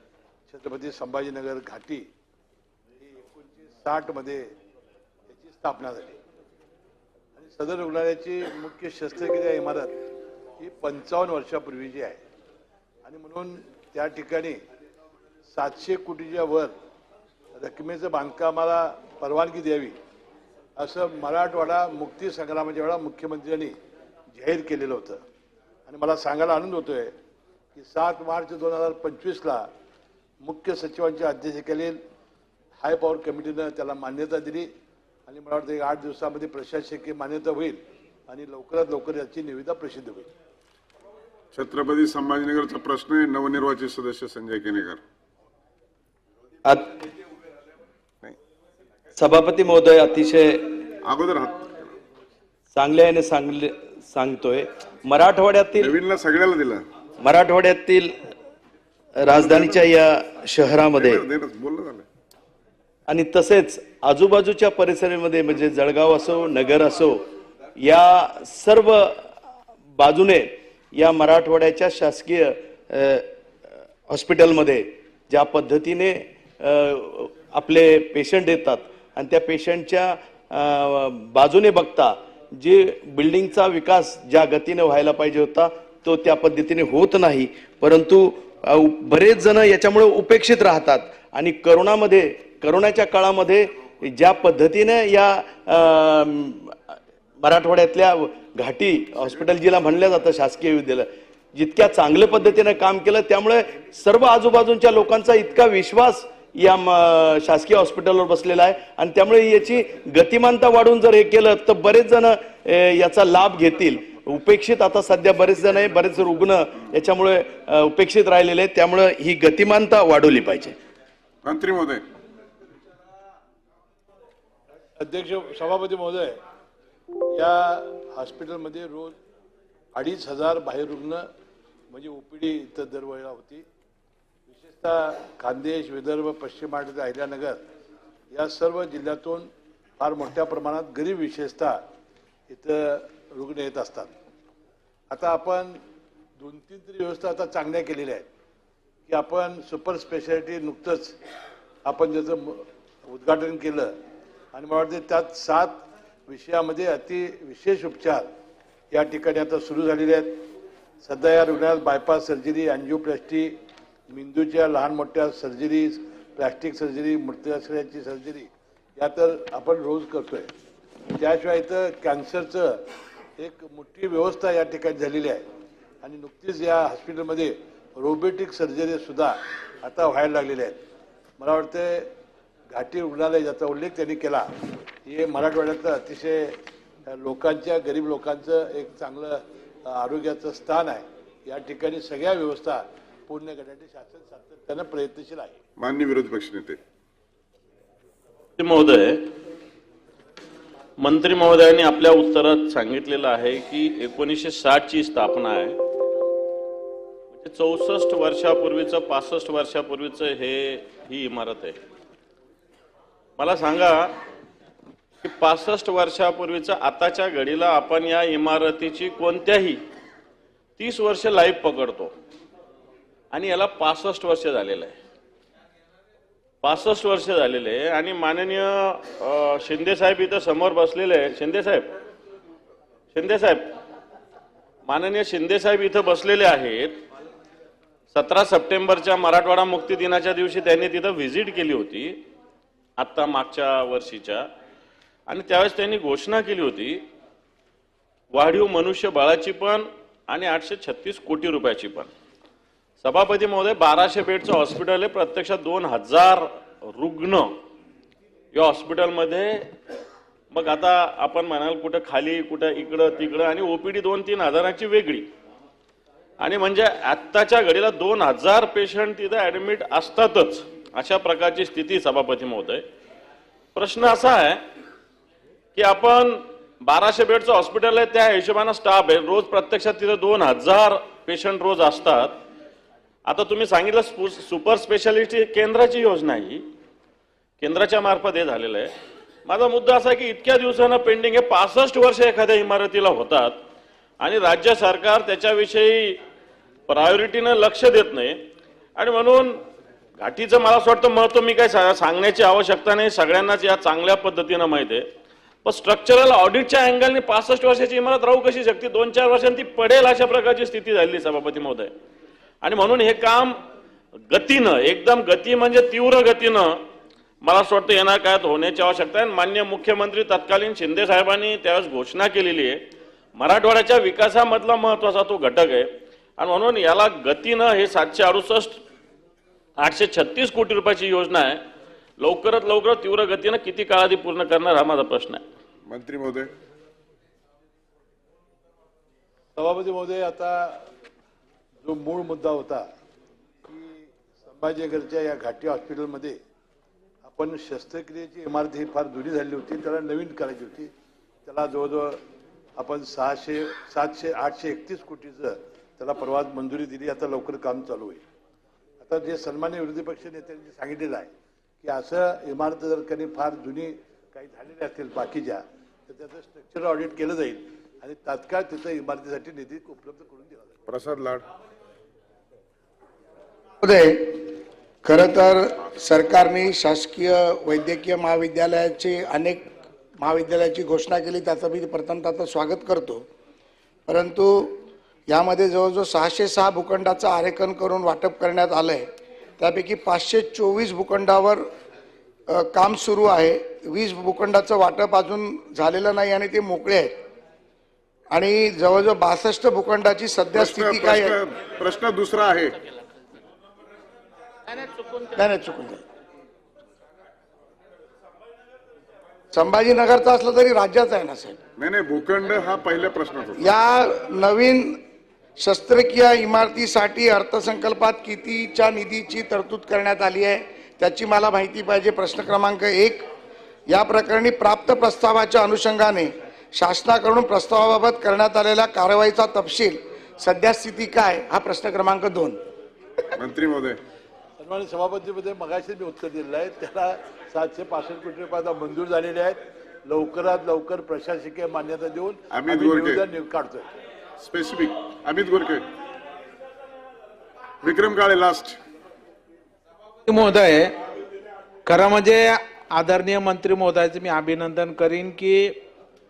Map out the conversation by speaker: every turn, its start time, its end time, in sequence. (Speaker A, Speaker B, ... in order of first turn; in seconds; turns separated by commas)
Speaker A: 0.5-2.1, Speaker A: 3.0-4.5, Speaker A: 5.3-6.2, Speaker A: 7.4-10.0, Speaker A: 10.6-12.2, Speaker A: 13.0-14.6, Speaker A: 15.5-16.7, Speaker A: 17.6-20.0, Speaker A: 20.8-23.8, Speaker A: 24.3-25.2, Speaker A: 25.9-27.1, Speaker A: 27.8-29.7, Speaker A: 30.4-32.0, Speaker A: 32.8-34.7, Speaker A: 35.3-40.3, Speaker B: 41.5-45.0, Speaker C: 46.7-46.9, Speaker C: 49.2-50.7, Speaker B: 51.0-51.9, Speaker C: 52.7-56.0, Speaker B: 55.8-56.8, Speaker C: 57.2-58.1, Speaker C: 59.2-61.2, Speaker B: 59.3-59.9, Speaker B: 61.0-62.0, Speaker C: 63.1-67.2, Speaker C: 67.8-69.3, Speaker C: 70.0-73.3, Speaker C: 74.1-120.8, Speaker B: 121.4-122.0, Speaker A: 125.0-126.4, Speaker A: 127.3-129.2, Speaker A: 129.9-131.3, Speaker A: 131.9-133.7, Speaker A: 134.5-137.6, Speaker A: 138.3-141.8, Speaker A: 142.5-144.1, Speaker A: 145.1-145.8, Speaker A: 146.4-148.3, Speaker A: 149.1-151.2, Speaker A: 151.8-153.9, Speaker A: 154.5-158.3, Speaker A: 158.9-160.4, Speaker A: 161.0-163.6, Speaker A: 164.1-170.5, Speaker A: 171.2-172.8, Speaker A: 173.4-175.4, Speaker A: 176.0-180.8, Speaker A: 181.4-182.1, Speaker A: 182.7-184.5, Speaker A: 185.1-195.6, Speaker B: 195.8-196.8, Speaker D: 198.6-199.3, Speaker D: 201.0-205.8, Speaker D: 207.4-211.8, Speaker D: 213.4-214.2, Speaker D: 215.2-219.8, Speaker D: 220.8-222.1, Speaker D: 223.3-224.9, Speaker D: 226.6-231.9, Speaker D: 233.1-233.7, Speaker D: 234.9-237.0, Speaker D: 238.1-242.2, Speaker D: 243.0-244.4, Speaker D: 245.3-247.0, Speaker D: 248.3-252.1, Speaker D: 253.0-257.5, Speaker D: 258.5-259.7, Speaker D: 260.5-265.3, Speaker D: 266.4-272.8, Speaker D: 273.8-274.6, Speaker D: 275.8-282.4, Speaker D: 283.3-286.6, Speaker D: 287.6-288.9, Speaker D: 289.5-293.6, Speaker D: 294.2-296.2, Speaker D: 296.9-298.4, Speaker D: 299.0-299.6, Speaker D: 300.2-305.0, Speaker D: 305.6-311.9, Speaker D: 312.6-313.6, Speaker D: 314.3-316.8, Speaker D: 317.4-322.8, Speaker D: 323.4-328.8, Speaker D: 329.8-331.6, Speaker D: 332.2-335.4, Speaker B: 335.9-336.5, Speaker A: 339.6-340.9, Speaker A: 341.8-342.9, Speaker A: 343.6-346.4, Speaker A: 347.2-350.9, Speaker A: 351.4-352.2, Speaker A: 352.8-358.2, Speaker A: 359.0-361.3, Speaker A: 361.8-370.8, Speaker B: 370.9-371.4, Speaker E: 373.8-374.4, Speaker E: 375.0-379.6, Speaker E: 380.2-383.2, Speaker E: 384.1-384.8, Speaker E: 385.3-389.1, Speaker E: 389.6-391.7, Speaker E: 392.5-397.1, Speaker E: 398.3-401.4, Speaker B: 400.5-402.8, Speaker F: 404.7-405.3, Speaker E: 405.4-406.0, Speaker E: 409.5-411.6, Speaker B: 411.8-413.7, Speaker E: 413.6-415.0, Speaker E: 415.6-423.2, Speaker E: 423.9-432.6, Speaker B: 433.4-434.0, Speaker A: 434.6-443.9, Speaker B: 442.5-443.2, Speaker B: 444.4-445.9, Speaker B: 447.8-448.8, Speaker F: 450.3-450.9, Speaker F: 451.9-455.7